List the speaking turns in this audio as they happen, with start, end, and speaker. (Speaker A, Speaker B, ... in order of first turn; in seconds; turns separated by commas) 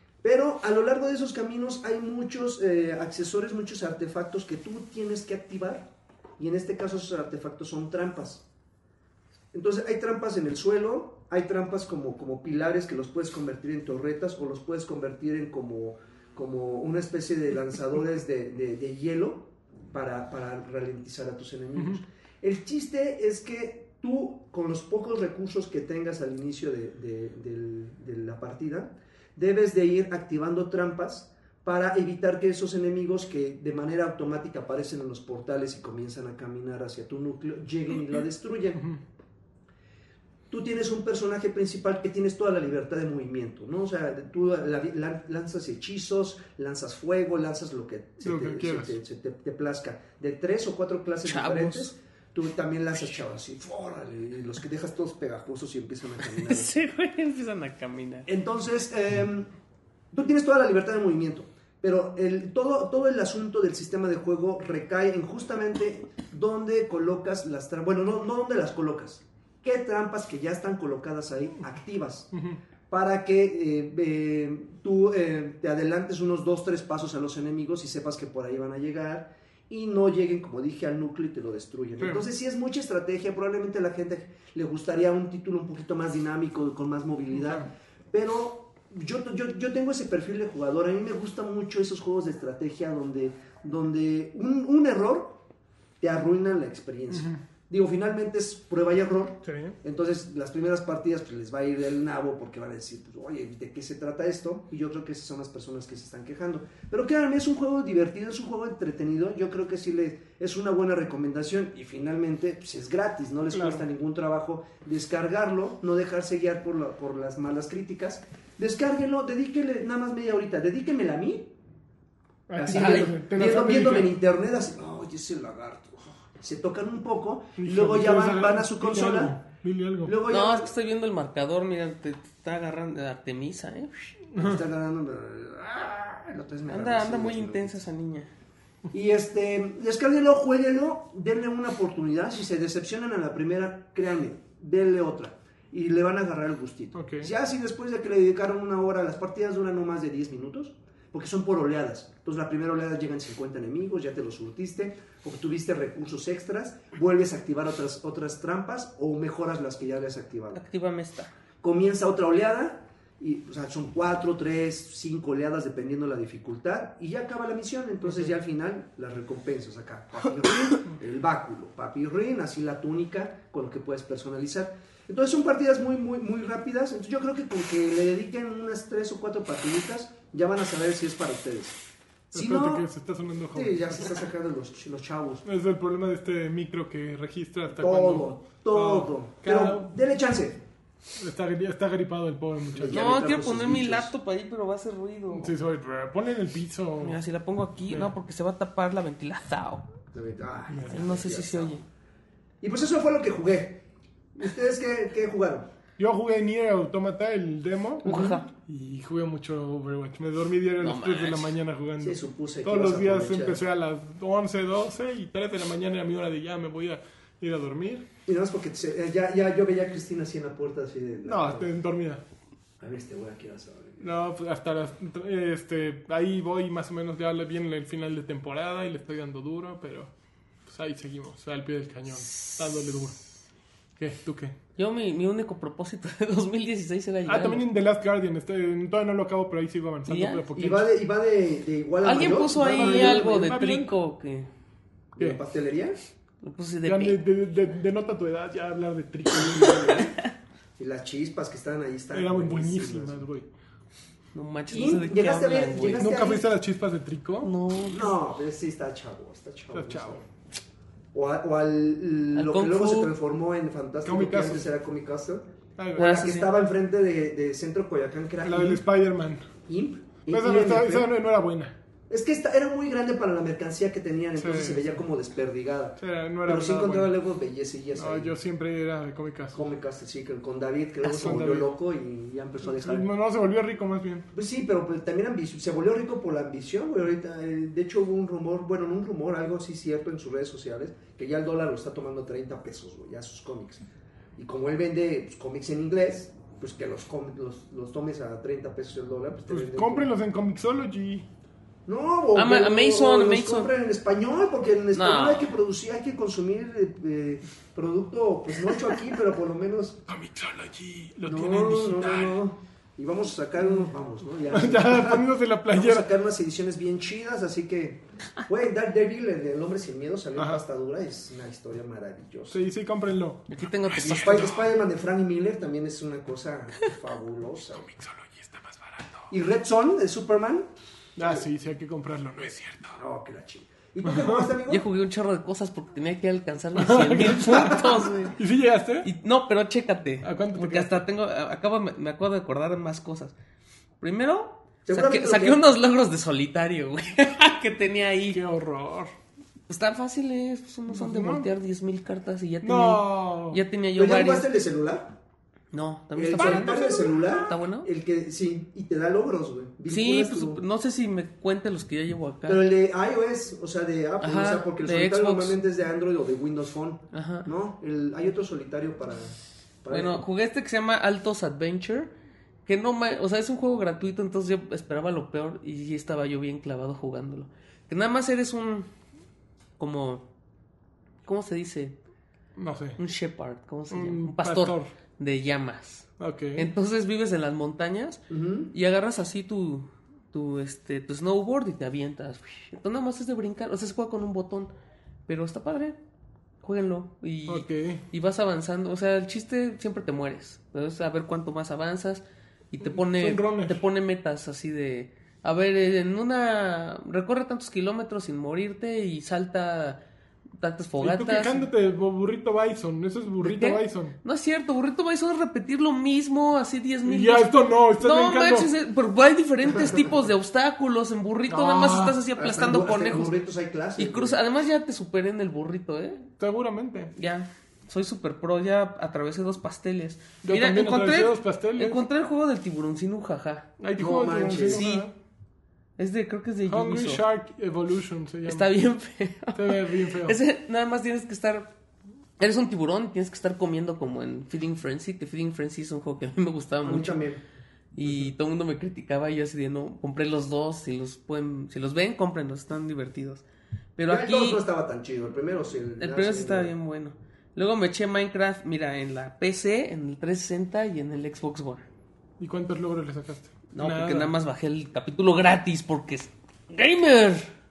Speaker A: 0.2-8.4, Speaker A: 9.5-38.8, Speaker A: 40.5-56.7, Speaker B: 48.2-49.0, Speaker C: 51.2-51.9, Speaker C: 56.3-58.3, Speaker A: 58.3-59.5, Speaker A: 60.1-72.3, Speaker A: 72.9-95.4, Speaker B: 82.0-82.2, Speaker A: 96.0-121.5, Speaker B: 97.1-97.4, Speaker B: 99.5-99.8, Speaker B: 113.5-113.8, Speaker B: 122.5-124.1, Speaker A: 122.6-129.4, Speaker C: 122.7-123.1, Speaker B: 127.6-130.2, Speaker A: 130.0-130.7, Speaker C: 130.3-134.1, Speaker B: 134.3-134.6, Speaker A: 134.4-137.8, Speaker C: 136.7-138.3, Speaker A: 138.9-160.6, Speaker B: 146.9-147.3, Speaker C: 160.5-161.3, Speaker A: 161.6-181.8, Speaker A: 182.3-182.9, Speaker B: 182.3-184.1, Speaker A: 183.5-185.4, Speaker B: 185.4-189.9, Speaker A: 187.7-190.6, Speaker B: 191.2-193.0, Speaker A: 192.7-194.1, Speaker C: 192.9-195.5, Speaker B: 195.3-197.2, Speaker C: 197.0-199.9, Speaker A: 200.1-201.8, Speaker B: 200.7-201.0, Speaker C: 200.9-201.8, Speaker A: 202.6-205.7, Speaker B: 206.0-218.1, Speaker C: 208.0-208.5, Speaker C: 210.8-211.6, Speaker A: 212.0-213.6, Speaker A: 218.3-221.7, Speaker B: 221.2-222.2, Speaker A: 222.8-224.1, Speaker B: 224.0-230.1, Speaker B: 230.7-233.2, Speaker B: 234.0-234.6, Speaker C: 234.8-237.6, Speaker B: 237.3-240.9, Speaker C: 240.1-240.4, Speaker A: 240.5-243.5, Speaker C: 242.0-244.5, Speaker B: 242.6-243.9, Speaker A: 245.2-246.0, Speaker C: 246.4-247.2, Speaker B: 246.8-250.1, Speaker A: 249.3-250.2, Speaker C: 249.7-250.3, Speaker A: 250.8-253.2, Speaker B: 252.1-253.5, Speaker C: 254.3-256.1, Speaker A: 254.7-256.5, Speaker B: 256.0-257.5, Speaker C: 257.4-258.1, Speaker A: 257.9-260.3, Speaker B: 259.7-260.2, Speaker A: 261.1-268.8, Speaker C: 262.3-263.1, Speaker B: 264.0-264.7, Speaker B: 265.8-266.3, Speaker C: 266.0-266.5, Speaker B: 268.4-269.5, Speaker A: 269.7-271.1, Speaker B: 270.3-271.8, Speaker A: 272.1-278.4, Speaker B: 274.4-274.9, Speaker B: 276.0-277.1, Speaker B: 277.9-279.6, Speaker A: 279.5-283.1, Speaker C: 281.0-281.4, Speaker B: 281.1-281.8, Speaker B: 282.7-284.3, Speaker A: 284.3-293.8, Speaker A: 294.4-300.1, Speaker B: 299.5-301.3, Speaker A: 301.9-310.0, Speaker C: 302.3-303.7, Speaker C: 304.9-305.5, Speaker B: 310.1-312.4, Speaker A: 311.2-322.6, Speaker B: 314.5-316.1, Speaker B: 320.4-320.6, Speaker B: 322.5-324.6, Speaker C: 323.5-324.5, Speaker A: 324.0-327.9, Speaker B: 327.8-329.3, Speaker A: 329.3-330.7, Speaker B: 331.2-333.0, Speaker A: 333.0-334.8, Speaker B: 334.1-334.5, Speaker C: 334.7-338.4, Speaker B: 336.8-339.1, Speaker C: 339.0-343.3, Speaker B: 340.2-341.0, Speaker C: 344.0-348.4, Speaker A: 344.9-345.6, Speaker B: 348.3-349.1, Speaker C: 349.7-354.5, Speaker B: 350.9-351.5, Speaker B: 352.6-353.6, Speaker A: 354.0-355.2, Speaker C: 355.7-357.9, Speaker A: 356.2-360.6, Speaker B: 356.4-357.4, Speaker C: 359.9-362.6, Speaker A: 362.5-370.2, Speaker C: 364.2-365.6, Speaker C: 367.1-367.5, Speaker C: 369.9-372.1, Speaker C: 372.7-378.9, Speaker C: 379.8-380.2, Speaker C: 381.2-382.0, Speaker B: 382.6-383.0, Speaker C: 383.0-394.7, Speaker B: 383.9-384.9, Speaker B: 386.2-386.7, Speaker A: 388.3-388.7, Speaker C: 395.3-396.0, Speaker C: 396.6-410.0, Speaker B: 397.5-398.0, Speaker B: 402.8-403.8, Speaker C: 410.6-411.6, Speaker B: 411.0-414.2, Speaker C: 413.4-423.4, Speaker B: 417.1-418.7, Speaker A: 419.8-420.1, Speaker B: 421.5-422.2, Speaker A: 422.4-424.4, Speaker C: 424.0-426.3, Speaker B: 426.4-427.1, Speaker C: 427.1-433.7, Speaker B: 430.4-432.0, Speaker B: 433.8-435.1, Speaker A: 434.0-434.9, Speaker C: 434.6-435.1, Speaker C: 436.0-437.2, Speaker B: 436.7-438.7, Speaker C: 438.4-441.7, Speaker B: 439.5-440.4, Speaker C: 442.4-447.2, Speaker A: 446.8-447.4, Speaker C: 447.9-453.4, Speaker C: 454.0-454.6, Speaker A: 454.1-456.7, Speaker C: 456.0-461.9, Speaker B: 462.4-464.3, Speaker C: 463.7-467.5